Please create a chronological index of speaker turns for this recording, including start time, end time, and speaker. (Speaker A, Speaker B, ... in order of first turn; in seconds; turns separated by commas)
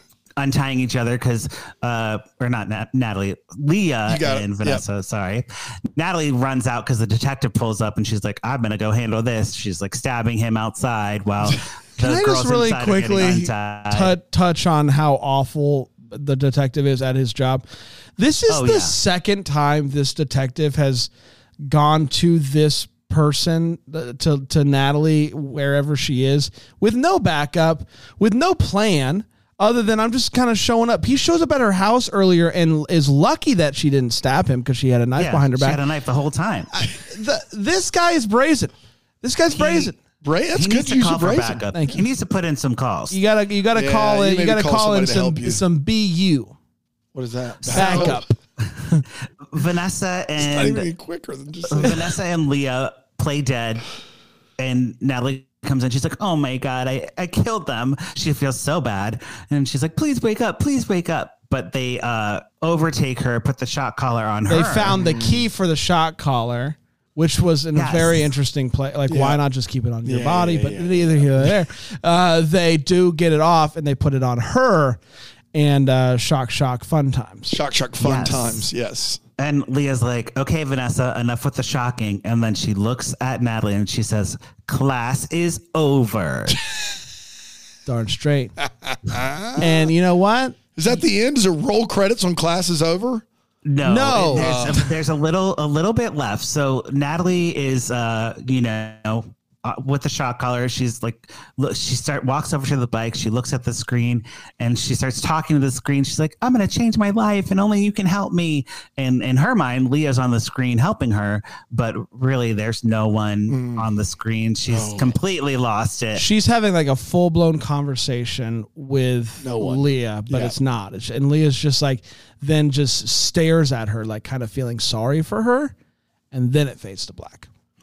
Speaker A: 0.4-14.1, Speaker B: 4.1-4.8, Speaker C: 12.0-17.6, Speaker C: 18.2-21.1, Speaker A: 18.5-18.9, Speaker C: 21.6-35.8, Speaker A: 35.2-36.7, Speaker C: 36.7-40.0, Speaker A: 39.5-39.9, Speaker B: 40.2-41.6, Speaker A: 40.5-43.1, Speaker C: 41.7-42.0, Speaker C: 43.1-46.5, Speaker B: 43.7-45.6, Speaker B: 47.1-48.2, Speaker A: 47.7-48.2, Speaker C: 47.7-48.3, Speaker A: 49.5-50.9, Speaker B: 50.4-52.2, Speaker A: 51.6-53.9, Speaker A: 54.6-65.0, Speaker C: 64.5-75.0, Speaker B: 64.9-65.5, Speaker A: 67.7-68.3, Speaker B: 69.1-69.4, Speaker B: 70.0-71.5, Speaker C: 75.5-77.6, Speaker B: 77.5-79.2, Speaker A: 78.0-78.7, Speaker A: 79.4-86.6, Speaker C: 87.8-88.5, Speaker B: 88.8-89.9, Speaker C: 89.6-90.6, Speaker B: 90.8-93.2, Speaker A: 93.7-116.2, Speaker C: 93.8-94.5, Speaker B: 94.3-95.0, Speaker B: 113.5-113.8, Speaker B: 114.7-115.2, Speaker C: 116.1-125.7, Speaker B: 119.4-120.5, Speaker C: 126.3-127.5